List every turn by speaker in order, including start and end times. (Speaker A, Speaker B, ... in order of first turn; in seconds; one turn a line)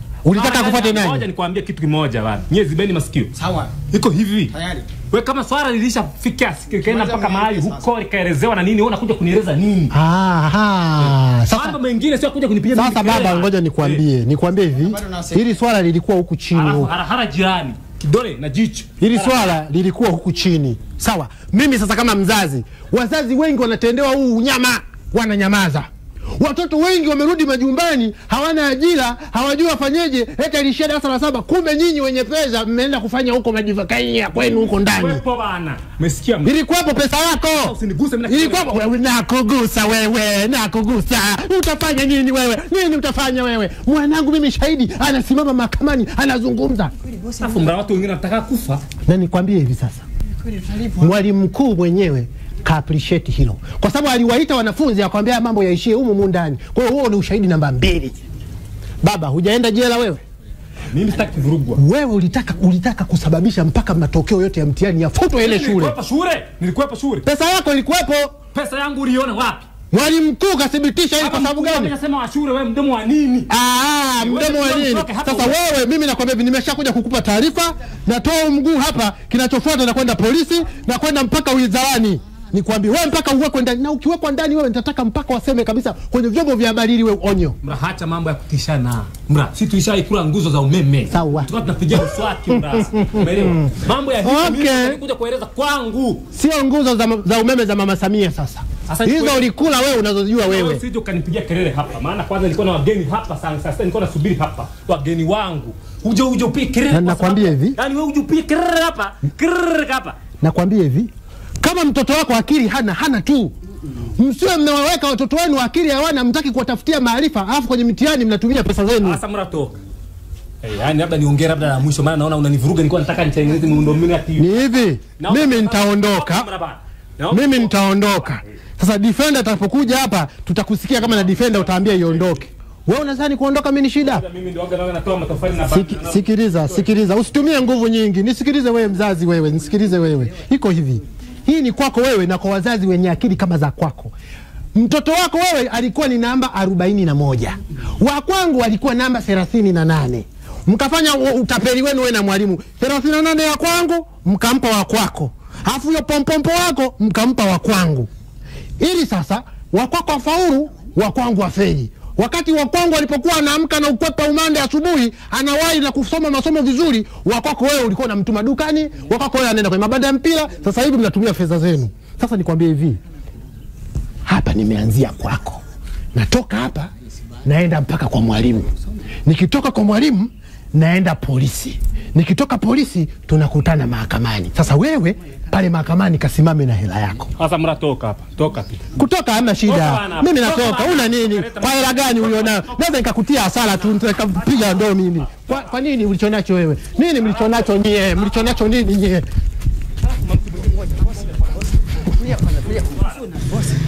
Speaker A: 0.2-1.3
Speaker B: 0.3-3.3
Speaker C: 3.4-3.8
Speaker B: 3.9-9.9
Speaker C: 4.5-4.9
Speaker C: 6.7-7.9
Speaker A: 9.9-11.8
Speaker B: 11.5-14.0
Speaker A: 12.7-16.9
Speaker C: 14.7-15.5
Speaker B: 16.5-18.9
Speaker A: 19.0-35.2
Speaker B: 34.4-36.5
Speaker A: 36.4-37.8
Speaker B: 37.5-38.9
Speaker A: 38.3-46.9
Speaker C: 47.1-47.7
Speaker B: 47.4-48.8
Speaker A: 49.1-50.0
Speaker C: 50.4-51.1
Speaker A: 51.0-58.2
Speaker A: 59.0-60.2
Speaker B: 60.9-61.8
Speaker A: 61.8-66.0
Speaker B: 65.4-67.3
Speaker A: 67.2-68.4
Speaker B: 68.5-69.7
Speaker A: 69.9-71.9
Speaker B: 71.2-73.5
Speaker A: 73.5-87.6
Speaker B: 74.2-75.6
Speaker B: 87.6-96.2
Speaker A: 91.1-93.7
Speaker A: 94.2-95.0
Speaker A: 96.3-100.8
Speaker B: 98.9-99.5
Speaker B: 100.4-110.2
Speaker A: 106.9-107.8
Speaker A: 110.4-111.1
Speaker A: 111.6-113.5
Speaker A: 114.2-119.2
Speaker B: 119.0-119.8
Speaker B: 120.6-128.4
Speaker A: 124.4-126.5
Speaker A: 127.3-134.2
Speaker B: 131.0-132.4
Speaker B: 134.0-136.8
Speaker A: 135.7-144.1
Speaker A: 144.8-158.1
Speaker A: 158.8-173.0
Speaker A: 174.3-175.6
Speaker A: 176.1-176.9
Speaker A: 177.4-178.7
Speaker A: 179.3-187.3
Speaker B: 187.4-188.8
Speaker A: 189.0-199.3
Speaker B: 189.7-192.8
Speaker B: 194.3-195.7
Speaker B: 197.2-197.6
Speaker B: 200.3-201.3
Speaker C: 202.1-203.7